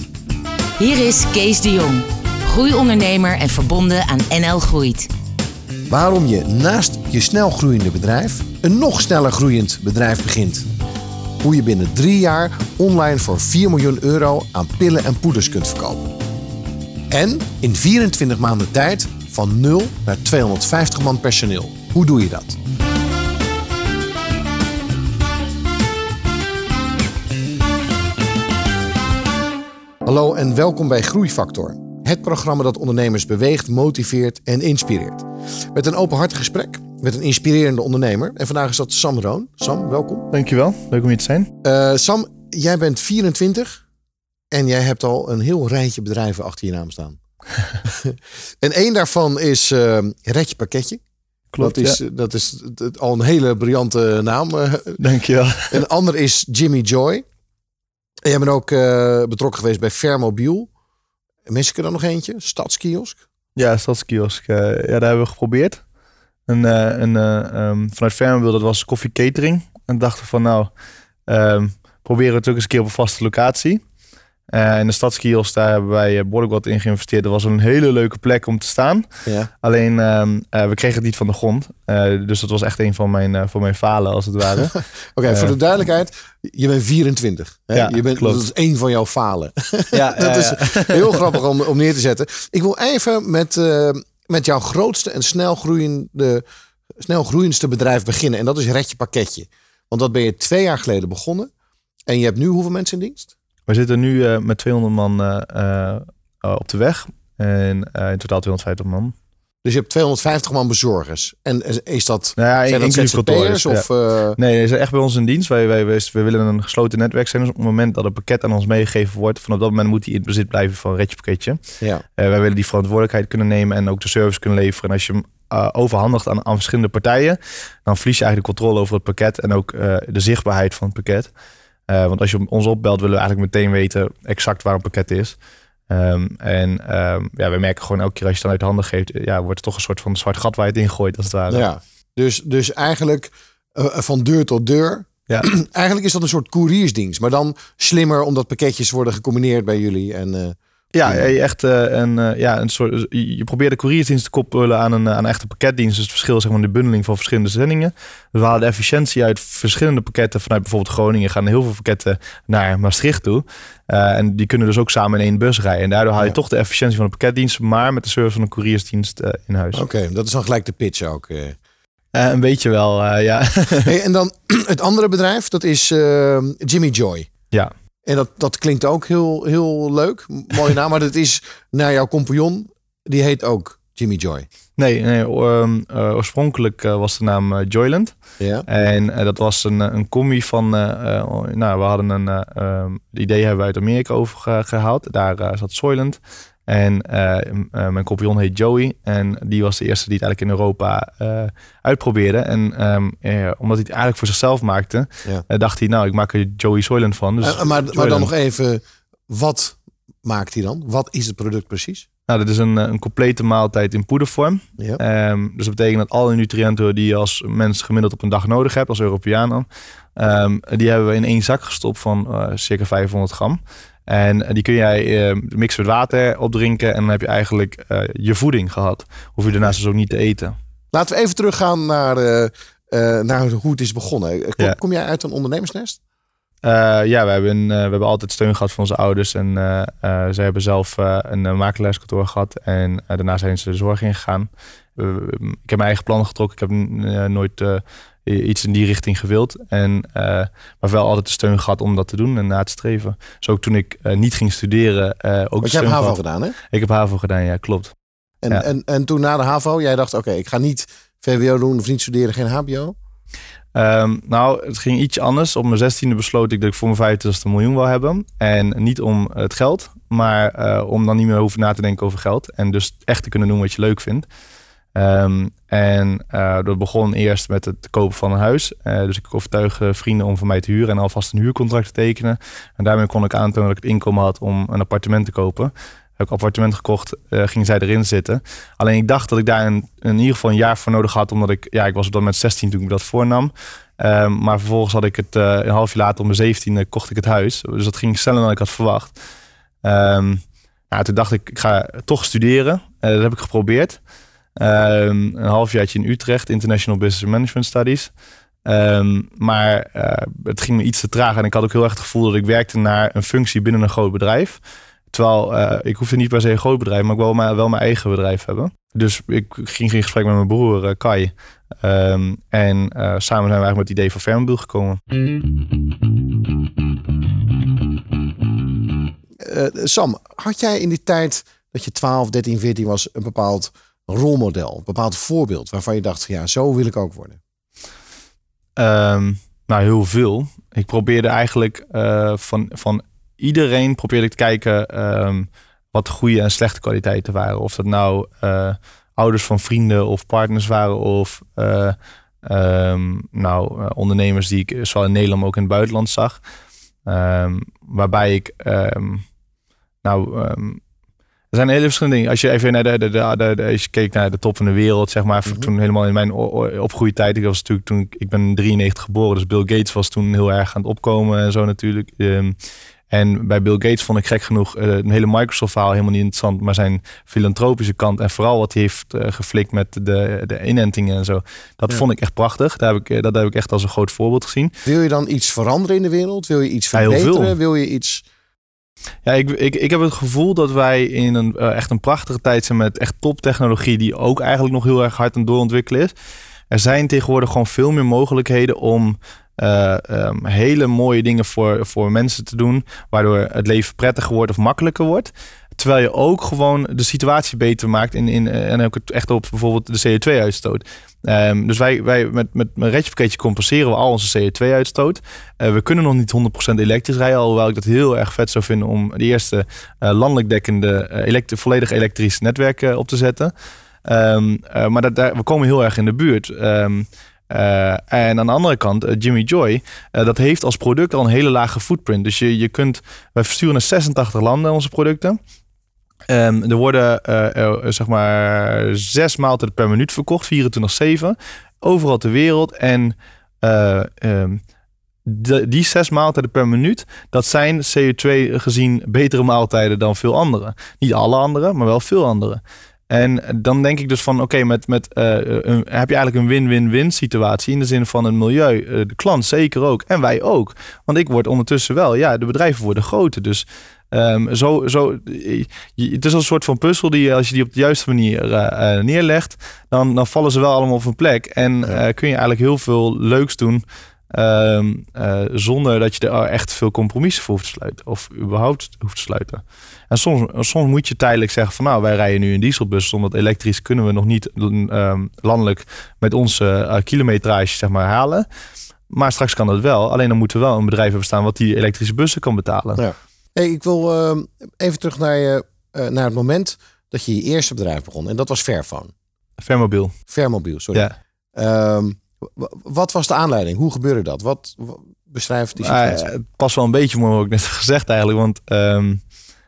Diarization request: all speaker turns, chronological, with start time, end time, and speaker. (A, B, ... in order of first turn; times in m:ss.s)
0:00.8-0:05.1 A
0:05.9-0:10.7 B
0:11.4-0:16.2 B
0:17.1-0:22.6 B
0:30.0-0:40.3 B
0:40.3-0:41.5 C
0:41.6-0:43.8 B
0:44.5-0:47.2 B
0:47.8-0:51.0 B
0:51.5-0:52.0 C
0:51.6-0:55.0 B
0:55.0-0:55.8 C
0:55.7-0:57.2 B
0:58.2-1:00.7 B
1:01.5-1:03.2 B
1:03.6-1:05.8 C
1:06.5-1:10.7 C
1:11.3-1:13.8 C
1:14.5-1:19.1 C
1:19.6-1:25.6 C
1:24.6-1:36.4 B
1:27.7-1:28.4 C
1:29.9-1:31.4 C
1:37.0-1:41.5 B
1:42.1-1:43.3 B
1:43.7-1:49.2 C
1:49.6-1:54.4 B
1:52.4-2:01.6 C
2:02.2-2:11.3 C
2:11.9-2:15.4 C
2:15.9-2:21.7 C
2:21.5-2:31.3 B
2:30.9-2:49.8 C
2:49.7-2:51.6 B
2:52.1-2:53.9 C
2:53.9-2:57.3 B
2:58.0-3:04.5 B
3:04.8-3:08.2 C
3:08.4-3:08.7 B
3:08.7-3:28.3 C
3:27.4-3:32.1 B
3:32.3-3:50.6 C
3:50.9-3:56.0 B
3:56.6-4:17.9 C
4:15.6-4:16.6 B
4:18.4-4:23.0 B
4:23.8-4:34.3 C
4:35.0-4:59.1 C
4:59.8-5:04.0 C
5:04.6-5:08.1 C
5:08.6-5:14.6 C
5:15.1-5:25.0 C
5:29.4-5:37.4 B
5:38.8-5:56.4 C
5:57.1-5:59.2 C
6:00.0-6:00.8 C
6:01.5-6:12.6 C
6:13.1-6:24.8 C
6:24.8-6:28.2 B
6:26.9-6:27.6 C
6:29.2-6:36.1 C
6:36.7-7:03.5 C
7:04.0-7:15.4 C
7:16.3-7:24.6 C
7:25.3-8:08.5 C
8:09.1-8:13.0 C
8:13.0-8:19.1 B
8:19.6-8:20.2 C
8:20.3-8:26.3 B
8:25.8-8:29.2 C